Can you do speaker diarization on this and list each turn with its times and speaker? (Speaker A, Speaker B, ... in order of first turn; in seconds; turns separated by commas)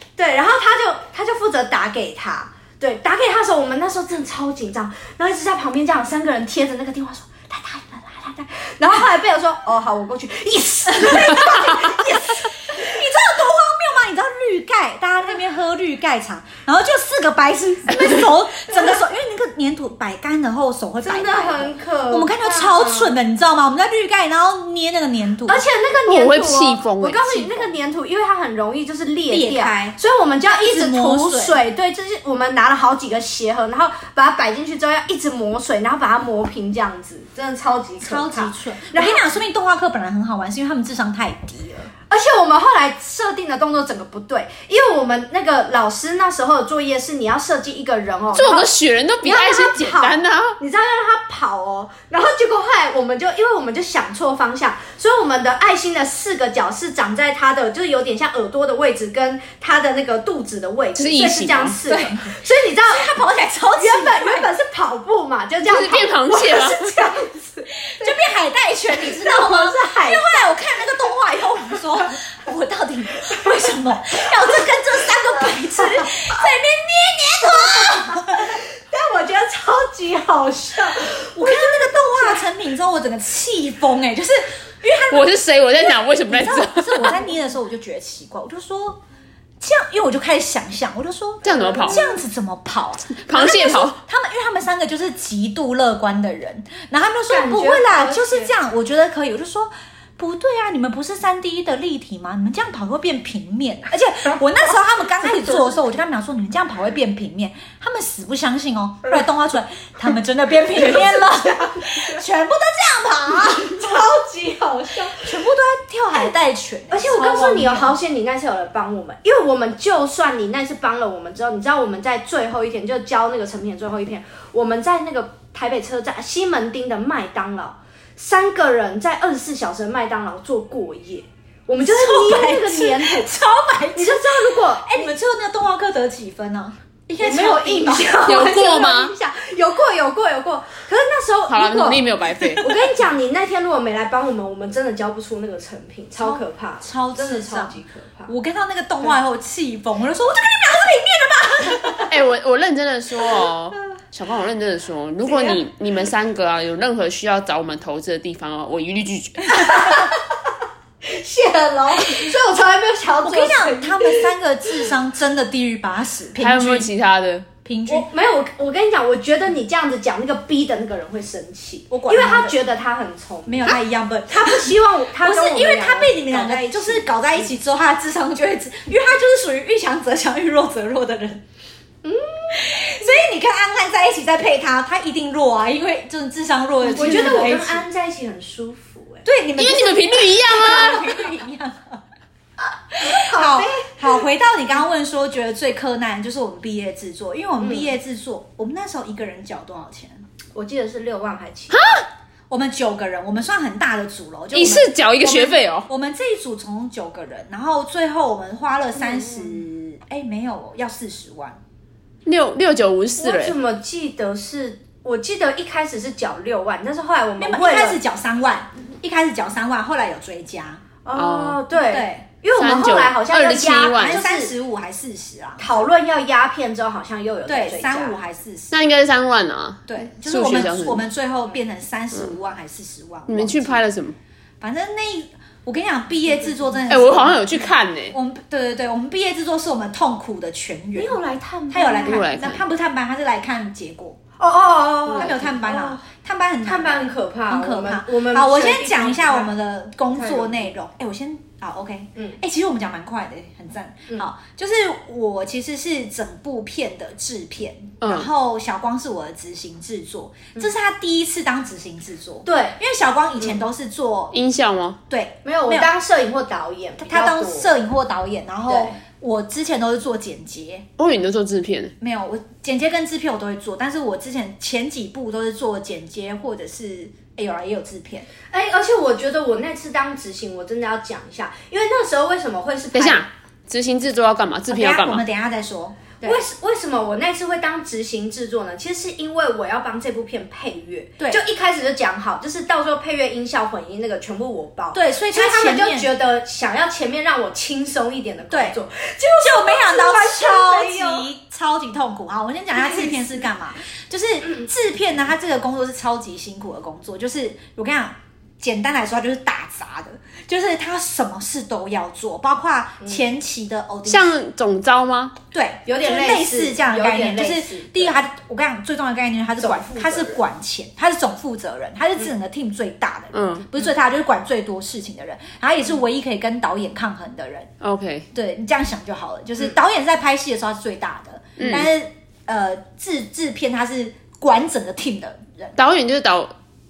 Speaker A: 0.2-12.9, Speaker B: 11.0-25.6, Speaker A: 21.0-23.1, Speaker A: 25.5-39.2, Speaker C: 26.1-27.7, Speaker B: 29.3-30.0, Speaker B: 30.6-31.6, Speaker B: 38.0-41.9, Speaker A: 42.1-48.7, Speaker C: 48.3-50.6, Speaker A: 49.2-63.2, Speaker C: 61.0-61.7, Speaker B: 61.9-64.5, Speaker A: 63.7-68.1, Speaker C: 65.7-66.9, Speaker B: 67.8-78.6, Speaker A: 68.9-70.5, Speaker A: 75.8-76.3, Speaker A: 77.4-82.4, Speaker B: 81.3-89.0, Speaker C: 85.1-87.2, Speaker B: 89.6-114.0, Speaker C: 91.4-92.0, Speaker A: 91.5-92.2, Speaker C: 93.2-94.0, Speaker A: 97.3-98.5, Speaker A: 105.3-105.7, Speaker A: 111.7-112.1, Speaker A: 113.5-115.3, Speaker B: 115.1-118.0, Speaker A: 116.9-133.3, Speaker B: 131.8-138.2, Speaker A: 133.9-135.1, Speaker A: 137.2-148.3, Speaker C: 138.3-139.1, Speaker C: 141.5-142.6, Speaker B: 146.2-152.1, Speaker C: 152.1-159.6, Speaker A: 155.3-155.6, Speaker A: 159.6-160.2, Speaker A: 161.0-164.3, Speaker B: 163.2-166.9, Speaker C: 166.4-167.5, Speaker B: 167.6-168.1, Speaker A: 167.9-173.8, Speaker B: 171.9-172.6, Speaker B: 173.4-181.4, Speaker A: 174.3-177.1, Speaker A: 182.0-182.6, Speaker B: 182.5-187.8, Speaker A: 186.8-189.2, Speaker B: 189.2-192.0, Speaker C: 189.6-191.2, Speaker B: 192.9-200.2, Speaker A: 193.0-194.0, Speaker A: 197.6-197.9, Speaker A: 200.5-201.8, Speaker C: 201.7-202.1, Speaker B: 202.5-211.6, Speaker C: 204.5-205.9, Speaker C: 212.2-213.6, Speaker A: 213.2-218.0, Speaker B: 217.4-220.8, Speaker A: 221.0-224.5, Speaker C: 221.1-221.6, Speaker B: 221.9-222.2, Speaker C: 222.5-224.2, Speaker B: 224.0-225.7, Speaker A: 225.6-228.2, Speaker B: 227.5-228.8, Speaker C: 228.7-231.1, Speaker B: 229.9-233.8, Speaker C: 233.3-234.2, Speaker B: 234.6-241.2, Speaker C: 236.9-238.1, Speaker A: 240.9-242.2, Speaker B: 241.7-244.2, Speaker C: 242.0-242.6, Speaker A: 244.4-246.0, Speaker B: 245.1-264.3, Speaker A: 246.6-249.5, Speaker A: 250.1-250.7, Speaker C: 258.0-258.3, Speaker A: 262.4-262.8, Speaker C: 264.3-265.0, Speaker B: 265.1-265.9, Speaker A: 265.4-267.7, Speaker B: 267.0-270.9, Speaker A: 268.7-269.0, Speaker C: 271.0-271.9, Speaker B: 272.0-278.3, Speaker A: 278.5-283.3, Speaker C: 282.9-285.2, Speaker B: 284.7-286.4, Speaker A: 286.2-301.3, Speaker B: 294.9-296.1, Speaker B: 298.5-298.8, Speaker B: 299.4-314.3, Speaker A: 302.8-303.1, Speaker C: 314.1-315.4, Speaker B: 315.5-327.7, Speaker A: 315.9-318.2, Speaker A: 319.6-320.4, Speaker C: 323.3-323.7, Speaker C: 327.8-328.3, Speaker B: 328.3-335.8, Speaker C: 331.6-331.9, Speaker C: 335.8-336.5